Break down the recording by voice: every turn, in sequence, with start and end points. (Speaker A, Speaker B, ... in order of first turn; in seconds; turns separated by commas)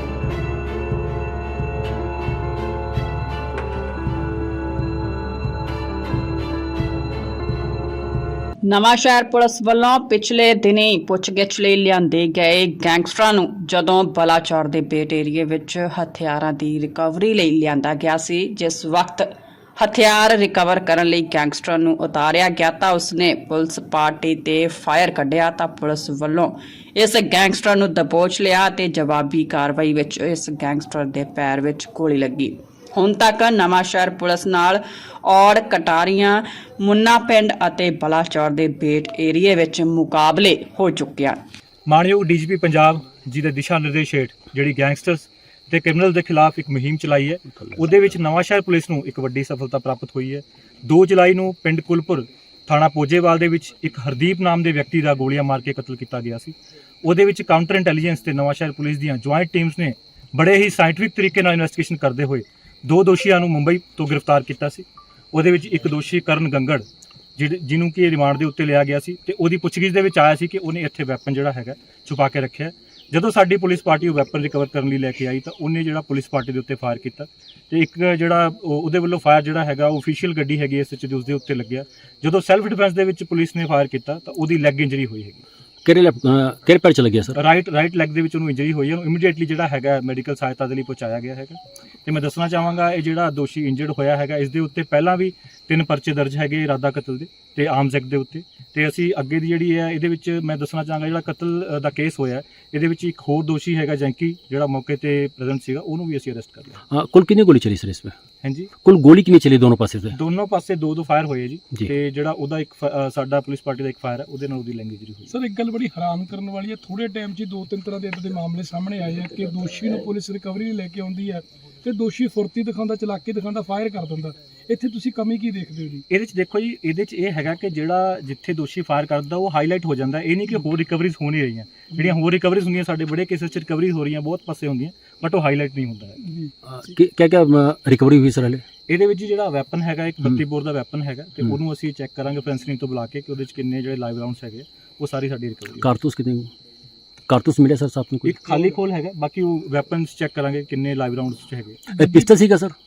Speaker A: 8.6-41.4, Speaker B: 41.9-66.8, Speaker B: 67.4-85.4, Speaker C: 85.8-87.4, Speaker B: 87.3-106.8, Speaker C: 106.9-108.1, Speaker B: 108.4-108.7, Speaker C: 108.8-110.2, Speaker B: 110.1-115.3, Speaker D: 115.3-126.0, Speaker B: 126.1-136.2, Speaker D: 136.2-136.5, Speaker C: 136.7-138.6, Speaker B: 138.9-145.9, Speaker C: 145.8-146.5, Speaker C: 147.3-148.4, Speaker B: 148.2-152.0, Speaker C: 152.0-152.7